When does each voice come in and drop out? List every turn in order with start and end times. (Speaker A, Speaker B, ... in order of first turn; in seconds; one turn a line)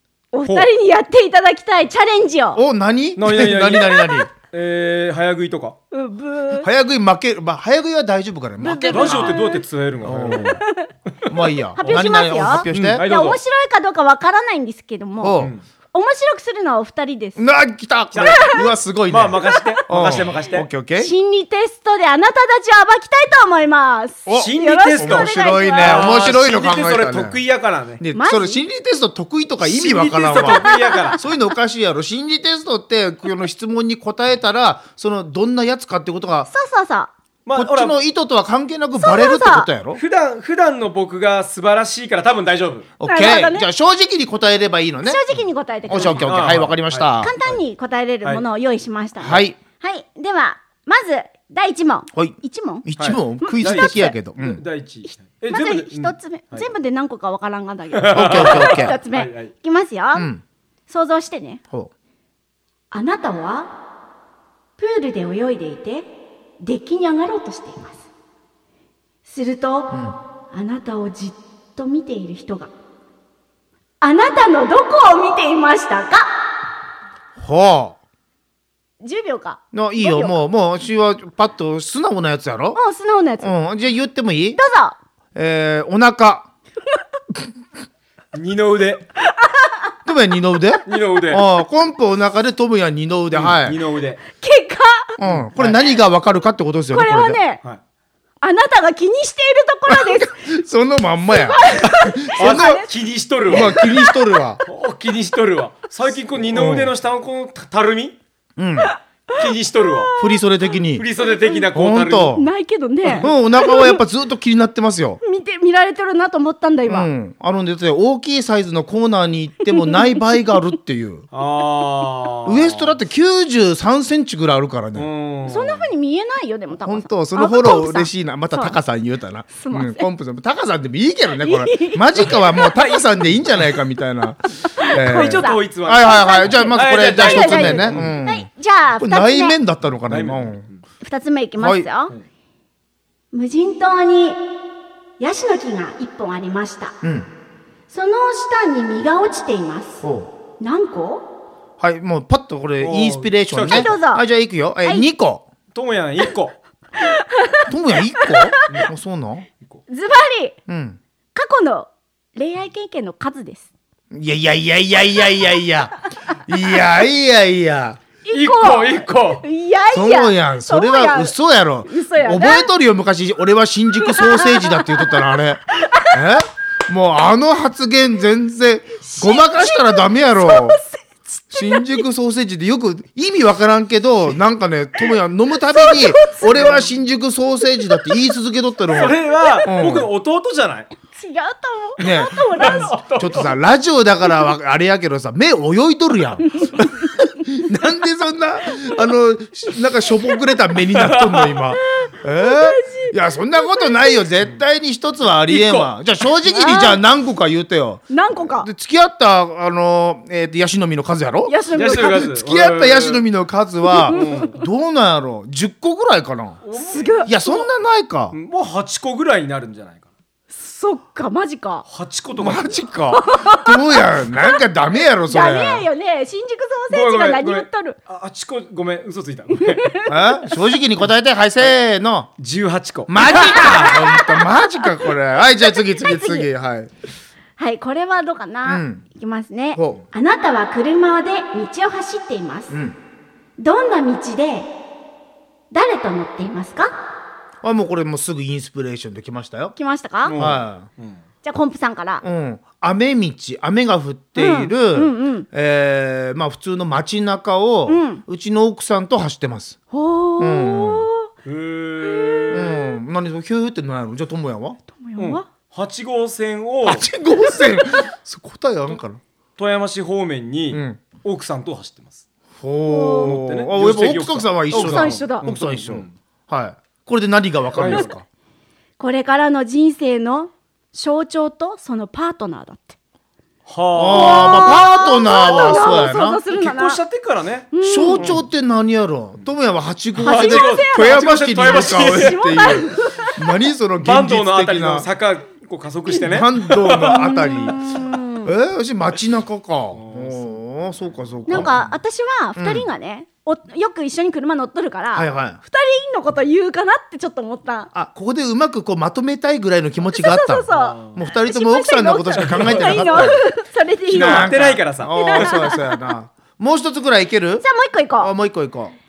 Speaker A: 0.3-2.6
Speaker B: 2.5-4.3
Speaker C: 3.2-5.8
Speaker A: 5.9-6.7
Speaker B: 6.5-9.4
Speaker A: 8.6-9.6
Speaker C: 8.9-10.6
Speaker B: 10.0-10.6
Speaker A: 10.6-10.9
Speaker B: 11.3-13.0
Speaker A: 11.8-15.4
Speaker C: 11.8-12.1
Speaker C: 12.7-13.4
Speaker B: 15.2-15.5
Speaker A: 15.9-17.4
Speaker B: 17.4-21.1
Speaker C: 18.1-18.5
Speaker A: 18.2-18.6
Speaker C: 19.1-20.7
Speaker A: 19.5-19.8
Speaker A: 21.0-26.2
Speaker B: 24.3-27.4
Speaker C: 24.3-28.0
Speaker B: 28.0-36.5
Speaker A: 28.1-28.6
Speaker C: 29.6-31.2
Speaker A: 30.4-31.2
Speaker A: 36.5-37.1
Speaker C: 37.5-38.0
Speaker B: 37.5-40.0
Speaker A: 39.0-39.7
Speaker C: 40.0-42.9
Speaker B: 43.0-45.2
Speaker A: 43.0-43.7
Speaker A: 45.0-46.3
Speaker B: 45.9-47.3
Speaker C: 46.0-47.6
Speaker A: 47.2-52.9
Speaker B: 49.2-49.6
Speaker B: 52.1-54.6
Speaker C: 53.0-56.7
Speaker A: 53.4-54.1
Speaker A: 55.0-60.3
Speaker C: 58.0-59.5
Speaker B: 58.1-59.0
Speaker B: 60.1-60.4
Speaker A: 60.9-61.6
Speaker A: 62.9-63.7
Speaker A: 64.8-66.1
Speaker A: 66.6-68.0
Speaker A: 69.2-72.7
Speaker B: 69.9-70.2
Speaker A: 74.0-76.3
Speaker B: 77.4-78.0
Speaker A: 79.0-80.3
Speaker B: 79.7-82.8
Speaker A: 82.8-83.5
Speaker B: 83.4-84.6
Speaker A: 84.6-85.0
Speaker B: 85.3-86.5
Speaker C: 88.3-89.0
Speaker A: 89.3-89.8
Speaker B: 90.0-93.8
Speaker C: 90.9-91.4
Speaker C: 93.3-94.2
Speaker A: 94.4-95.2
Speaker B: 95.2-97.4
Speaker C: 95.2-95.8
Speaker A: 96.9-97.6
Speaker A: 98.4-100.4
Speaker B: 99.9-102.8
Speaker A: 101.3-102.9
Speaker C: 102.4-103.8
Speaker B: 103.5-104.6
Speaker A: 103.5-104.1
Speaker C: 104.7-108.2
Speaker B: 106.5-106.9
Speaker B: 108.6-108.9
Speaker C: 109.3-110.1
Speaker A: 110.1-110.4
Speaker B: 110.2-111.1
Speaker C: 111.0-112.3
Speaker B: 111.7-112.5
Speaker A: 112.3-114.0
Speaker B: 113.2-115.2
Speaker A: 115.2-117.1
Speaker B: 116.9-121.3
Speaker C: 121.3-123.0
Speaker B: 122.5-125.1
Speaker C: 125.0-125.9
Speaker A: 125.5-128.8
Speaker B: 126.8-138.5
Speaker A: 129.6-130.1
Speaker A: 131.4-132.9
Speaker A: 134.6-139.6
Speaker C: 134.9-138.2
Speaker B: 139.0-140.7
Speaker C: 140.1-140.8
Speaker A: 141.0-142.1
Speaker B: 141.6-141.9
Speaker A: 143.3-144.4
Speaker A: 145.2-146.9
Speaker B: 147.0-147.3
Speaker A: 147.9-150.0
Speaker B: 150.0-150.3
Speaker A: 150.6-151.2
Speaker B: 151.8-155.4
Speaker C: 152.8-153.9
Speaker A: 153.7-154.2
Speaker C: 155.7-156.6
Speaker A: 157.0-157.7
Speaker B: 157.7-159.5
Speaker A: 158.2-158.7
Speaker A: 159.9-160.6
Speaker B: 160.7-161.0
Speaker A: 161.3-163.7
Speaker B: 164.1-168.0
Speaker A: 168.3-171.3
Speaker C: 168.3-169.4
Speaker B: 169.9-180.8
Speaker A: 171.9-172.7
Speaker A: 174.0-176.1
Speaker A: 179.1-182.0
Speaker B: 181.5-190.1
Speaker A: 185.8-186.5
Speaker C: 186.6-186.8
Speaker C: 188.9-190.9
Speaker A: 189.4-189.7
Speaker A: 191.1-192.9
Speaker B: 192.0-216.6
Speaker C: 192.4-193.6
Speaker C: 200.9-201.6
Speaker A: 202.0-204.2
Speaker C: 205.5-205.9
Speaker A: 206.5-207.0
Speaker A: 208.1-208.7
Speaker A: 211.5-212.3
Speaker C: 211.7-213.2
Speaker A: 213.9-214.5
Speaker C: 214.1-214.6
Speaker C: 216.6-217.3
Speaker A: 216.8-217.6
Speaker B: 217.3-218.4
Speaker C: 218.3-220.1
Speaker A: 220.5-221.8
Speaker C: 221.9-222.8
Speaker B: 222.4-225.9
Speaker A: 223.1-224.5
Speaker A: 225.3-228.0
Speaker C: 226.9-229.9
Speaker A: 229.6-230.4
Speaker B: 230.1-232.3
Speaker C: 232.4-233.5
Speaker B: 233.1-236.9
Speaker A: 233.2-234.9
Speaker A: 235.6-236.5
Speaker A: 237.6-242.7
Speaker B: 238.7-239.0
Speaker B: 239.8-240.0
Speaker B: 242.7-243.0
Speaker A: 243.6-244.7
Speaker A: 245.7-246.9
Speaker B: 247.6-249.7
Speaker A: 249.8-250.4
Speaker C: 250.2-251.2
Speaker B: 250.4-250.9
Speaker A: 251.4-252.2
Speaker B: 252.2-259.8
Speaker A: 254.4-255.5
Speaker A: 257.9-258.2
Speaker A: 259.9-261.3
Speaker B: 260.4-261.1
Speaker C: 261.4-262.8
Speaker A: 262.1-262.7
Speaker B: 262.5-264.8
Speaker A: 264.9-265.5
Speaker C: 265.2-267.1
Speaker B: 266.8-269.2
Speaker C: 269.6-272.2
Speaker B: 270.7-271.0
Speaker B: 272.6-278.2
Speaker A: 272.9-273.4
Speaker C: 273.2-276.1
Speaker A: 274.7-275.5
Speaker C: 277.8-278.1
Speaker A: 279.0-283.0
Speaker C: 283.7-284.9
Speaker B: 283.9-286.4
Speaker A: 284.1-287.0
Speaker C: 285.4-288.4
Speaker A: 287.7-288.3
Speaker B: 287.8-295.1
Speaker C: 290.2-292.8
Speaker A: 290.2-293.4
Speaker C: 294.0-297.7
Speaker B: 296.2-297.8
Speaker A: 297.0-298.5
Speaker B: 298.4-301.8
Speaker C: 299.9-300.6
Speaker C: 301.4-301.9
Speaker A: 301.5-307.9
Speaker B: 302.6-302.9
Speaker B: 305.1-305.6
Speaker B: 307.9-313.4
Speaker A: 310.1-314.5
Speaker C: 310.7-311.2
Speaker C: 312.4-313.4
Speaker C: 314.1-315.6
Speaker B: 314.1-317.7
Speaker A: 315.1-315.9
Speaker A: 317.6-318.3
Speaker B: 318.2-318.9